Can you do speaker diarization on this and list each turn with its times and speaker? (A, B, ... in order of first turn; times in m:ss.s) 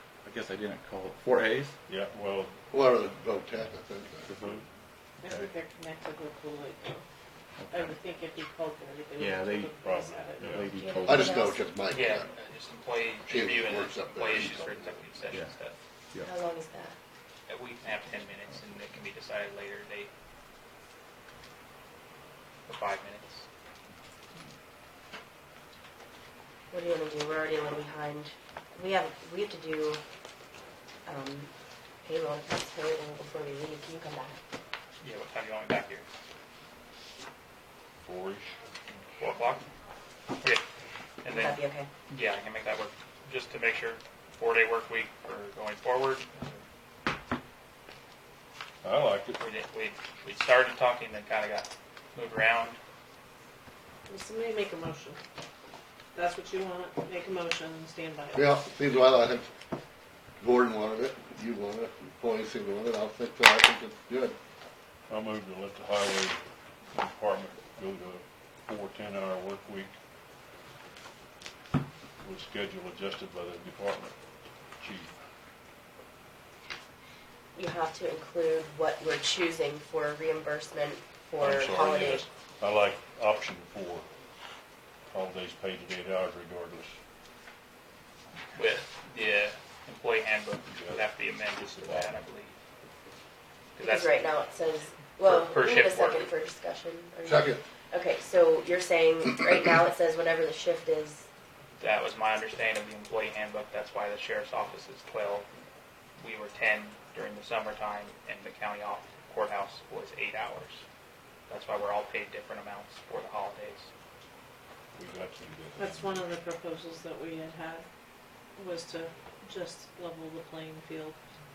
0:00.2-0:01.7 A
0:01.9-0:02.6 B
0:02.7-0:04.3 C
0:04.3-0:04.6 A
0:04.4-0:04.6 B
0:05.2-0:07.0 D
0:05.2-0:05.5 A
0:07.6-0:07.9 A
0:07.7-0:11.2 D
0:09.2-0:09.7 A
0:09.8-0:10.6 B
0:10.3-0:11.5 A
0:10.7-0:11.6 E
0:11.0-0:12.3 C
0:11.9-0:15.8 F
0:13.3-0:15.0 C
0:16.2-0:17.0 E
0:17.5-0:20.1 F
0:22.6-0:23.4 F
0:26.7-0:30.0 E
0:31.0-0:31.5 E
0:32.0-0:34.4 E
0:35.0-0:36.0 F
0:38.0-0:38.5 B
0:39.2-0:39.6 F
0:40.4-0:40.6 F
0:41.2-0:46.6 F
0:41.2-0:41.9 E
0:48.8-0:49.4 B
0:49.4-0:52.8 F
0:54.1-0:55.2 D
0:56.1-0:58.6 D
0:58.3-0:59.5 C
1:00.4-1:04.4 C
1:05.1-1:06.4 B
1:06.9-1:09.9 B
1:12.2-1:14.1 B
1:14.8-1:15.1 B
1:17.5-1:22.3 E
1:21.4-1:24.1 B
1:25.1-1:26.9 B
1:28.5-1:32.6 F
1:31.8-1:32.0 B
1:33.8-1:34.3 F
1:33.8-1:41.2 E
1:35.2-1:36.3 F
1:37.2-1:37.6 C
1:41.8-1:45.5 F
1:46.2-1:50.8 F
1:51.5-1:53.9 F
1:54.9-1:56.2 B
1:55.8-1:57.8 D
1:58.6-2:01.2 D